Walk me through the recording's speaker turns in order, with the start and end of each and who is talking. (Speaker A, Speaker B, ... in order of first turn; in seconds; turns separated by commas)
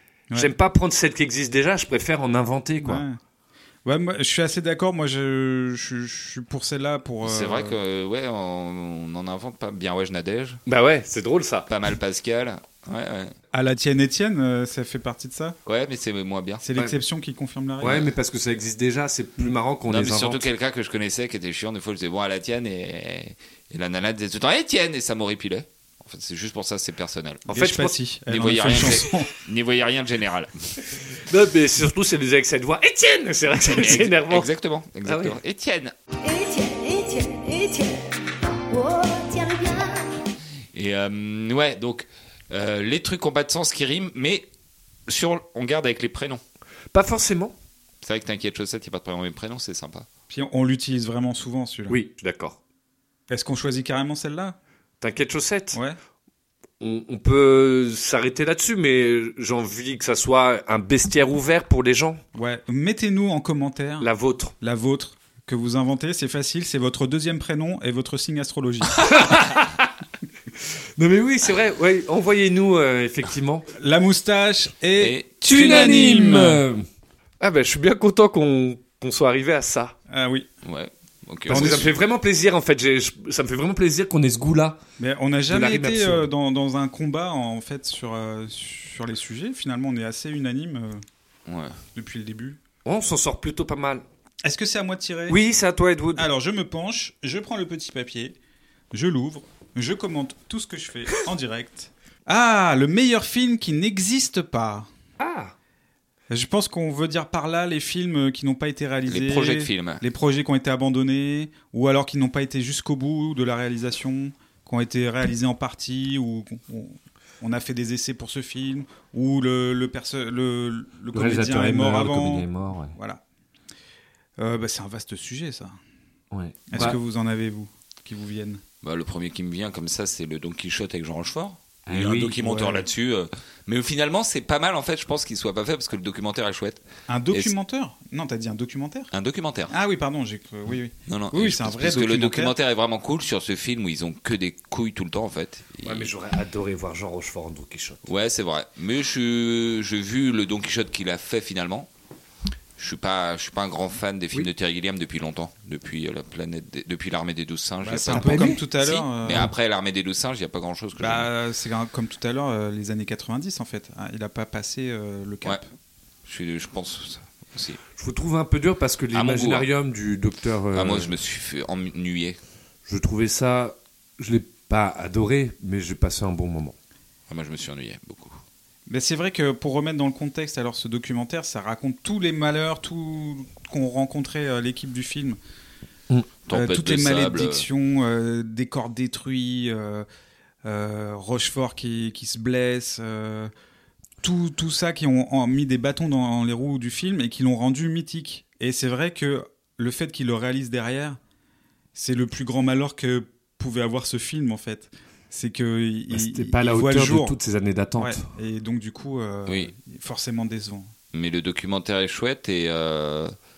Speaker A: 0.3-3.0, Speaker B: 2.8-3.2, Speaker B: 3.8-7.8, Speaker C: 7.2-10.6, Speaker A: 10.7-11.7, Speaker C: 11.7-13.3, Speaker B: 13.5-15.6, Speaker C: 15.7-16.6, Speaker B: 16.6-18.0, Speaker A: 17.8-20.4, Speaker C: 19.9-27.4, Speaker A: 27.5-27.9, Speaker B: 27.5-29.3, Speaker C: 28.3-30.5, Speaker A: 31.3-34.5, Speaker C: 33.6-35.9, Speaker A: 35.0-35.4, Speaker D: 36.2-38.1, Speaker D: 38.7-40.0, Speaker C: 40.7-44.5, Speaker C: 45.1-46.4, Speaker A: 46.9-47.5, Speaker C: 48.0-50.1, Speaker B: 50.3-52.0, Speaker A: 51.9-52.6, Speaker B: 53.3-54.6, Speaker A: 55.0-55.8, Speaker B: 55.7-56.0, Speaker A: 56.8-62.2, Speaker B: 62.3-64.1, Speaker A: 64.0-64.5, Speaker B: 64.6-69.0, Speaker A: 69.0-69.9, Speaker A: 71.0-73.7, Speaker B: 73.8-76.6, Speaker C: 75.0-75.3, Speaker A: 75.4-76.8, Speaker A: 77.4-80.0, Speaker B: 80.1-80.5, Speaker C: 80.6-81.9, Speaker A: 81.5-84.8, Speaker B: 81.5-81.9, Speaker B: 85.0-91.0, Speaker A: 85.5-86.2, Speaker C: 91.5-91.8, Speaker B: 91.9-92.6, Speaker A: 92.8-94.0, Speaker B: 94.4-95.4, Speaker A: 95.3-96.2, Speaker B: 96.2-98.4, Speaker B: 98.9-104.9, Speaker A: 105.2-105.5, Speaker B: 106.3-123.2, Speaker C: 109.1-110.0, Speaker A: 121.1-122.9, Speaker B: 124.4-125.8, Speaker A: 126.3-127.0, Speaker B: 126.7-128.6, Speaker C: 128.8-137.5, Speaker A: 131.9-132.3, Speaker B: 132.4-132.9, Speaker B: 137.1-139.1, Speaker C: 139.1-139.7, Speaker B: 139.7-142.5, Speaker C: 141.1-146.1, Speaker A: 145.8-148.0, Speaker C: 148.0-151.9, Speaker C: 152.8-161.3, Speaker B: 157.8-159.5, Speaker A: 158.1-158.6, Speaker B: 161.0-165.7, Speaker C: 166.2-167.8, Speaker A: 168.0-171.1, Speaker C: 169.1-169.7, Speaker C: 170.7-172.4, Speaker A: 172.9-176.8, Speaker C: 177.3-178.4, Speaker B: 178.9-185.4, Speaker C: 186.5-187.7, Speaker B: 186.5-190.1, Speaker B: 190.6-193.5, Speaker B: 194.2-201.2, Speaker B: 201.9-207.3, Speaker A: 206.1-208.2, Speaker B: 208.0-210.9, Speaker C: 211.1-213.3